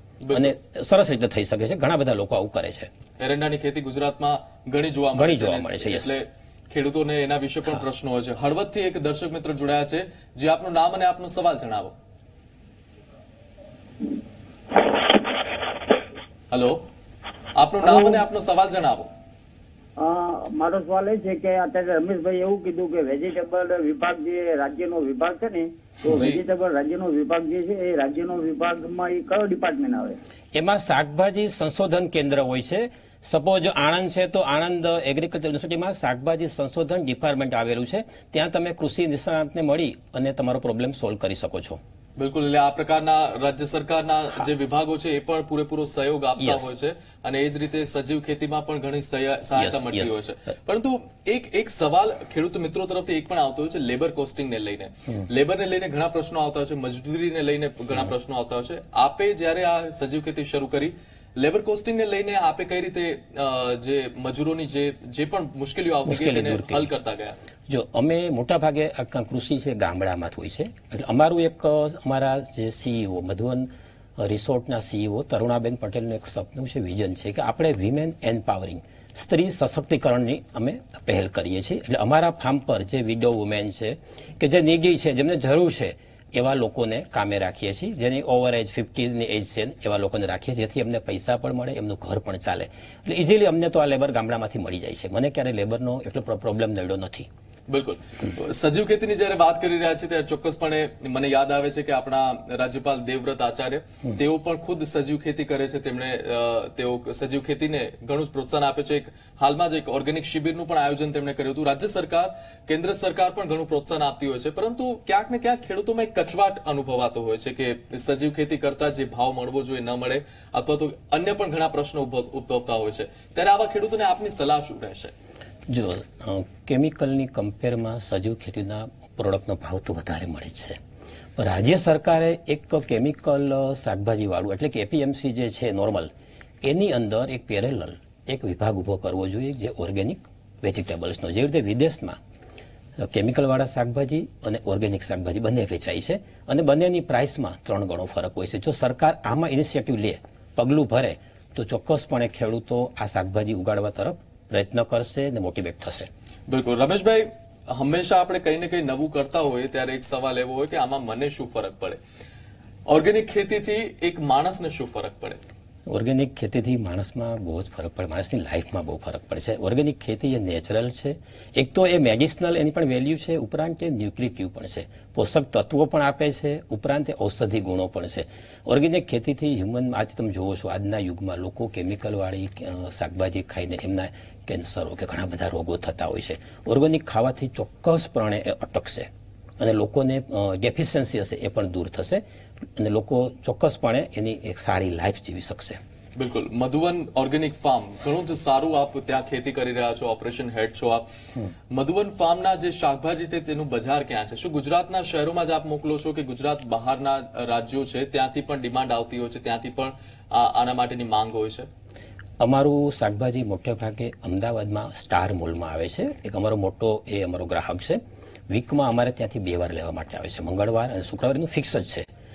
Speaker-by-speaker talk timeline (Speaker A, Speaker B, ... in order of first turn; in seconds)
Speaker A: 0.2-0.5, 3.2-11.9, 16.5-16.8, 17.6-19.1, 26.1-26.4, 42.2-67.4, 97.7-125.1, 156.5-162.0, 162.9-165.4, 196.2-201.1, 201.7-211.7
Speaker B: 0.3-2.9, 5.1-6.2, 30.5-41.8, 46.4-46.7, 49.5-50.2, 66.1-66.9, 67.7-97.3, 125.7-130.8, 131.4-136.1, 136.6-142.2, 143.0-156.1, 165.9-192.2, 192.8-195.8, 212.4-222.1
Speaker C: 20.0-30.2